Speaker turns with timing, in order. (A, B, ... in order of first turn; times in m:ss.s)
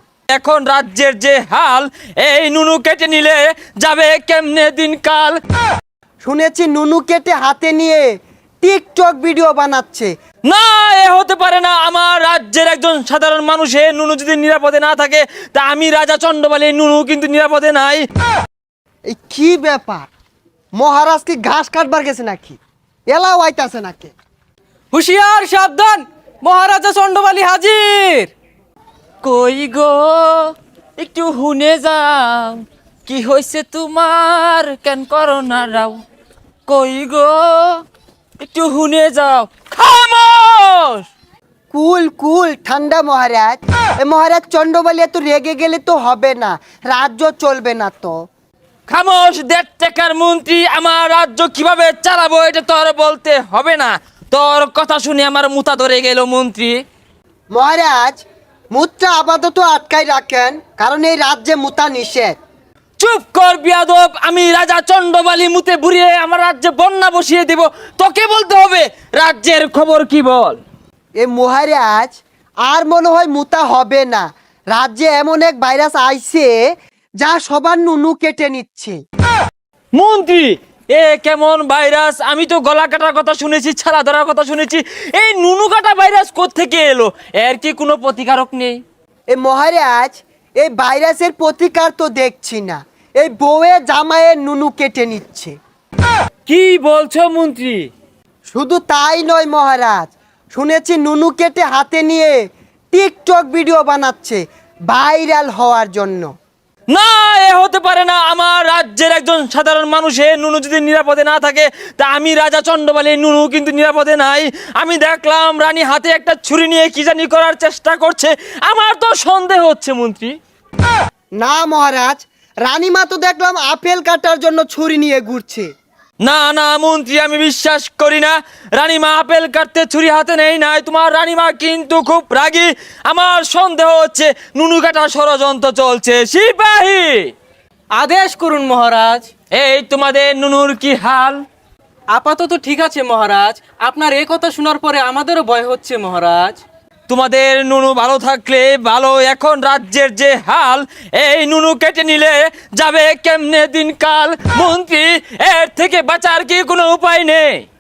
0:00.3-0:05.4 A
0:06.2-0:08.0 B
0:08.6-0:10.1 B
0:10.5-0:18.0 A
0:19.1-0:20.1 B
0:20.8-0:22.6 B
0:23.1-0:24.1 B
0:24.9-0:28.3 C
0:29.2-0:36.0 A
0:36.7-0:37.8 A
0:38.4-0:41.1 A
0:41.7-0:48.2 B
0:48.9-0:56.8 A
0:57.5-1:02.4 B
1:03.0-1:10.6 A
1:11.2-1:16.6 B
1:17.2-1:19.0 B
1:19.9-1:28.8 A
1:29.3-1:35.6 B
1:36.5-1:37.9 A
1:38.5-1:42.3 B
1:42.9-1:46.3 B
1:46.9-2:00.4 A
2:01.4-2:05.7 B
2:06.2-2:17.3 A
2:17.9-2:19.3 C
2:19.6-2:21.4 A
2:22.1-2:26.6 C
2:27.1-2:37.6 A